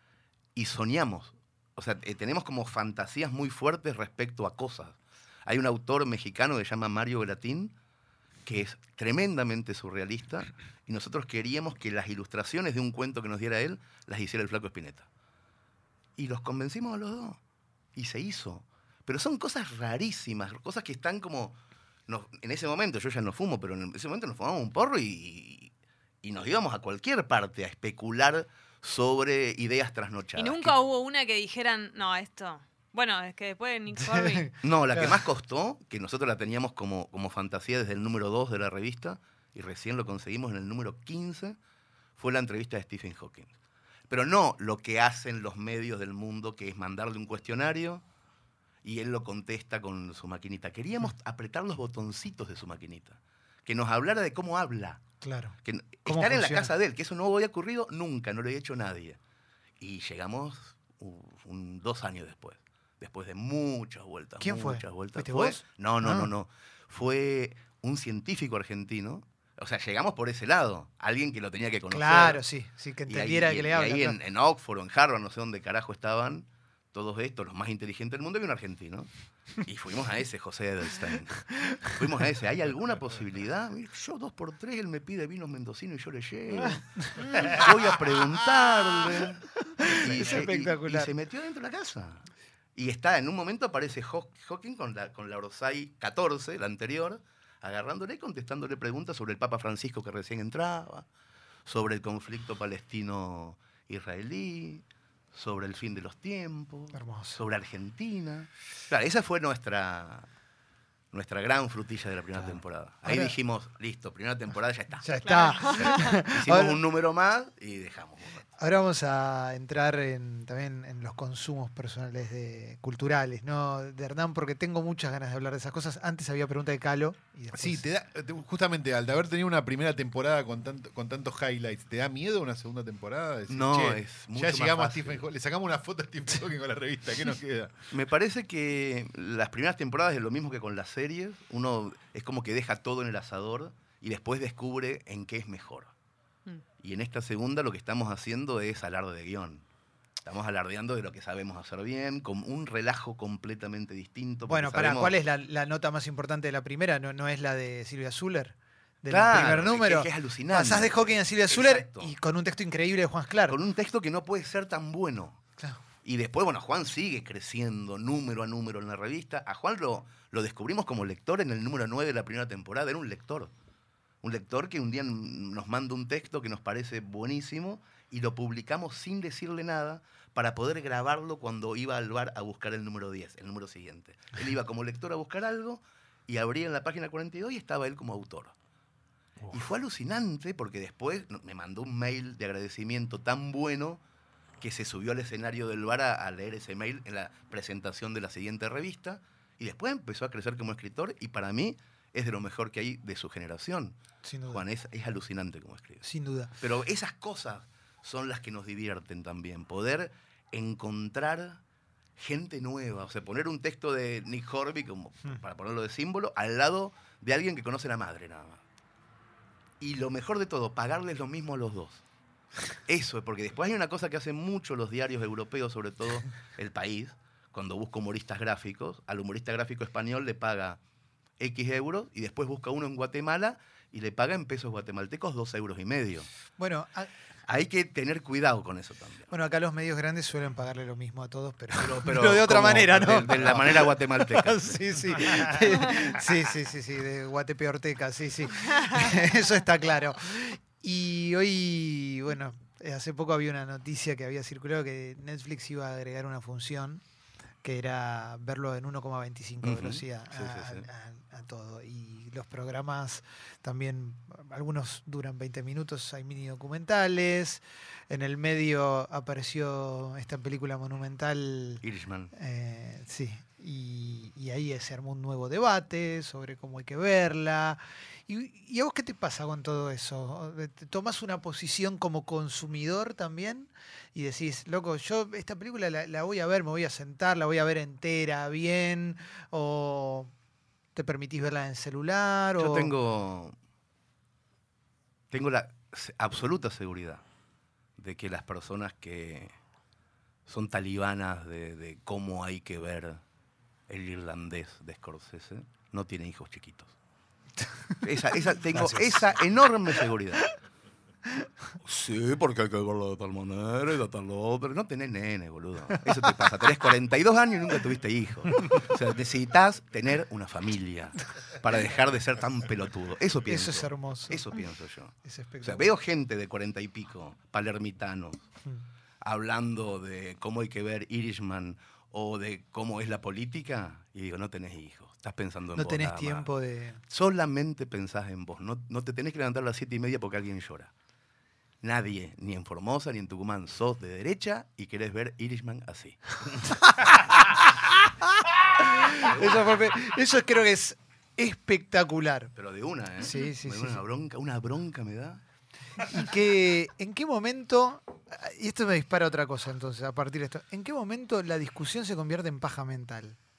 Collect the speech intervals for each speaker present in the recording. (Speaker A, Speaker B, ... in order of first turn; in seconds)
Speaker A: 0.5-7.7, 8.4-15.1, 16.2-17.4, 17.9-30.7, 34.6-41.6, 42.2-43.5, 44.1-48.0, 48.8-55.0, 55.6-59.2, 59.8-72.4, 73.1-101.0, 101.7-110.3, 111.1-115.2, 115.7-118.4, 133.5-135.2, 137.9-145.9, 146.8-149.6, 150.2-155.1, 159.1-162.1, 163.5-165.4, 166.0-173.5, 174.2-188.5, 189.5-194.0, 194.6-204.0, 204.5-206.0, 206.6-211.6, 212.2-218.6, 219.8-222.0, 222.8-230.8, 231.4-236.3, 237.4-239.3, 241.7-245.8, 259.6-260.9, 271.8-272.3, 292.6-293.5, 295.3-297.2, 298.0-299.5, 300.4-303.2, 303.9-306.9, 308.0-310.4, 311.8-328.4, 329.2-336.5, 337.1-340.9, 341.8-347.3, 349.1-349.7, 352.6-355.4
Speaker B: 30.4-34.5, 115.2-116.2
Speaker C: 34.0-35.1, 55.2-56.7, 64.4-66.3, 71.9-74.2, 81.5-81.9, 87.0-87.7, 89.5-91.1, 106.9-107.4, 113.0-113.3, 115.0-116.8, 118.6-127.8, 154.5-163.6, 204.2-204.6, 206.0-206.5, 236.6-237.1, 239.3-257.0, 257.6-290.3, 290.9-292.9, 308.7-309.2, 323.5-324.5, 325.2-325.9, 335.7-337.0, 347.0-347.6, 348.7-352.5, 353.2-354.0, 356.0-363.4
Speaker D: 127.5-137.8